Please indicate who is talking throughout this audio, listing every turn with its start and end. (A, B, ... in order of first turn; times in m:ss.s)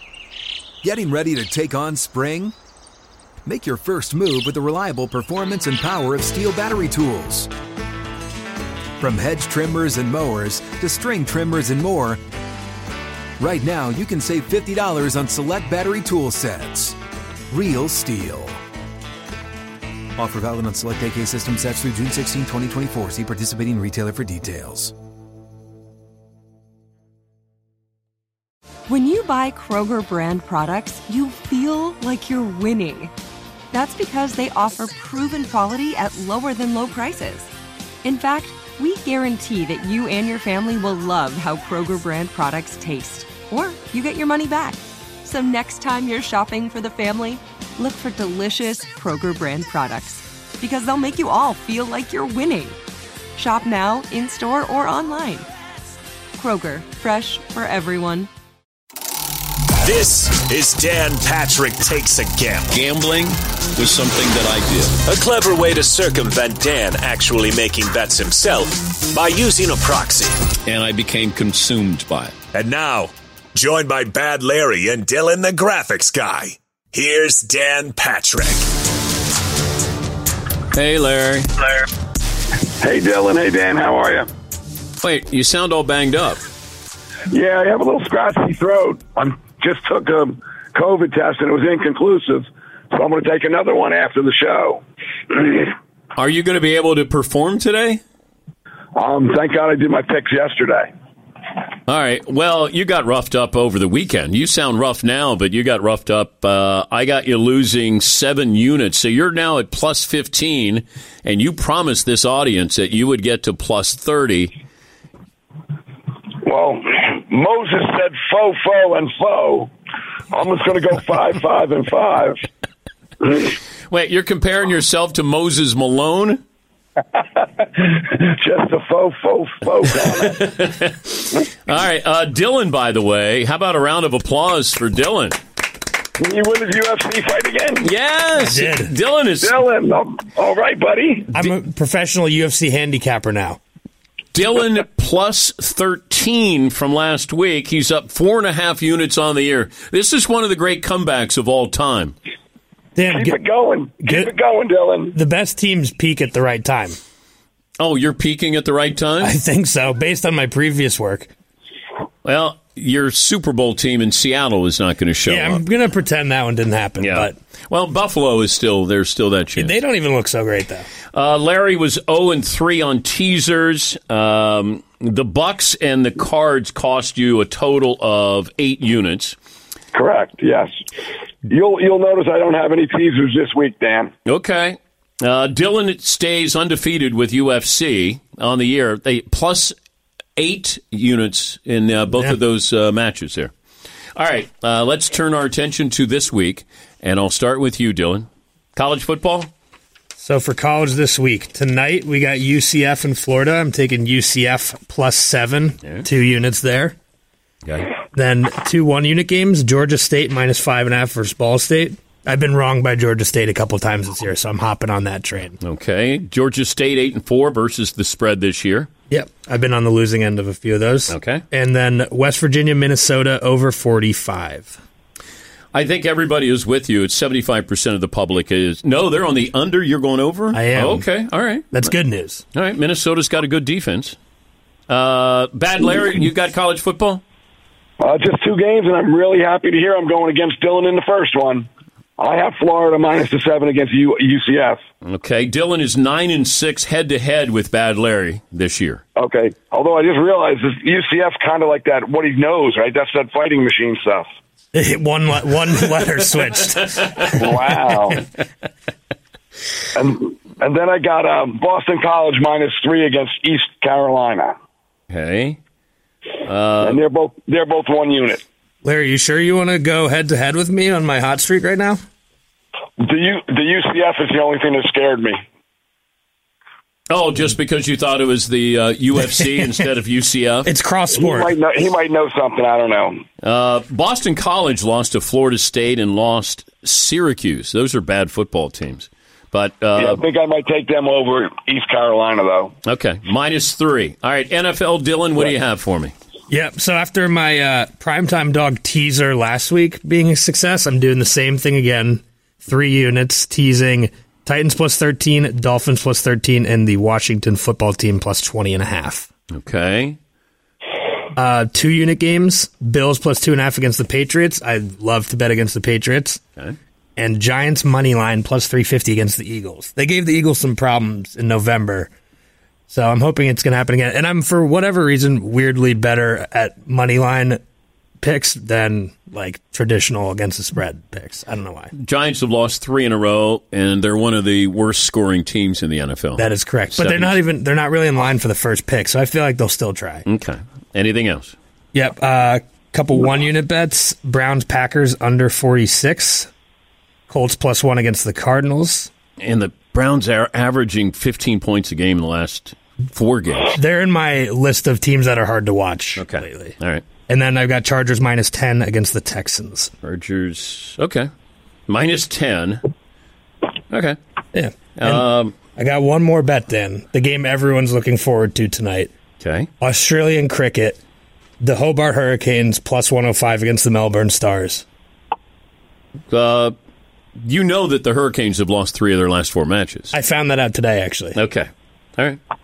0:00.8-0:02.5 A
0:03.4-0:07.5 A
0:09.0-0:12.2 A
0:13.4-0:17.0 A
0:17.5-0:18.6 A
0:20.2-0:24.9 A
0:28.9-0:33.1 B
0:33.7-0:37.5 B
0:38.0-0:52.8 B
0:53.4-0:55.5 B
0:56.4-0:58.3 B
0:59.8-1:02.7 C
1:02.7-1:05.0 D
1:05.0-1:10.4 C
1:10.6-1:12.4 D
1:12.5-1:18.7 C
1:20.7-1:21.5 D
1:22.8-1:24.3 E
1:25.0-1:26.4 D
1:27.3-1:35.7 E
1:36.1-1:38.0 D
1:38.9-1:40.9 E
1:41.9-1:54.5 D
1:56.4-1:59.7 E
2:00.3-2:02.4 E
2:03.3-2:06.4 D
2:07.6-2:10.4 E
2:10.3-2:15.4 D
2:16.2-2:17.9 E
2:17.8-2:19.6 D
2:18.4-2:18.9 F
2:19.4-2:21.3 E
2:21.3-2:23.6 F
2:24.3-2:32.1 D
2:33.0-2:33.4 F
2:33.1-2:35.1 E
2:34.0-2:34.3 F
2:35.1-2:37.0 F
2:37.8-2:39.3 D
2:39.2-2:41.3 F
2:42.2-2:45.6 D
2:45.3-2:47.4 F
2:47.0-2:49.7 D
2:49.6-2:50.8 F
2:51.1-2:59.4 D
2:59.9-3:00.7 E
3:01.4-3:04.1 E
3:04.2-3:09.7 D
3:10.4-3:13.5 D
3:14.2-3:19.5 D
3:20.2-3:27.0 F
3:28.1-3:35.6 F
3:35.6-3:38.9 D
3:39.1-3:44.8 F
3:41.1-3:41.4 D
3:45.7-3:51.9 D
3:50.5-3:51.1 F
3:51.7-3:52.4 F
3:52.5-3:54.2 D
3:54.9-3:57.2 D
3:58.0-4:01.7 E
4:02.2-4:04.8 E
4:05.0-4:09.0 D
4:09.2-4:14.3 E
4:14.7-4:18.2 F
4:17.3-4:18.2 E
4:19.9-4:24.5 E
4:25.1-4:25.6 D
4:26.4-4:27.0 D
4:26.8-4:28.4 E
4:28.8-4:32.0 F
4:33.0-4:35.4 E
4:37.1-4:40.7 D
4:40.6-4:41.5 F
4:41.1-4:43.2 E
4:43.4-4:50.2 D
4:50.0-4:52.7 E
4:52.8-4:56.1 D
4:56.5-5:09.3 F
5:09.5-5:10.2 D
5:11.4-5:16.4 F
5:17.2-5:22.1 F
5:22.9-5:27.6 F
5:28.2-5:31.9 F
5:32.0-5:37.4 D
5:36.4-5:40.2 F
5:40.3-5:41.5 D
5:41.9-5:46.5 F
5:47.3-5:49.1 F
5:49.4-5:53.8 D
5:53.8-5:56.8 F
5:56.2-5:57.0 D
5:57.3-5:59.9 F
6:00.0-6:01.3 D
6:01.9-6:02.8 D
6:03.9-6:04.2 D
6:04.5-6:09.1 F
6:05.0-6:05.5 D
6:09.4-6:09.7 D
6:09.8-6:11.0 F
6:11.6-6:14.8 F
6:16.3-6:16.7 D
6:17.4-6:20.1 D
6:20.1-6:21.4 F
6:21.3-6:22.4 D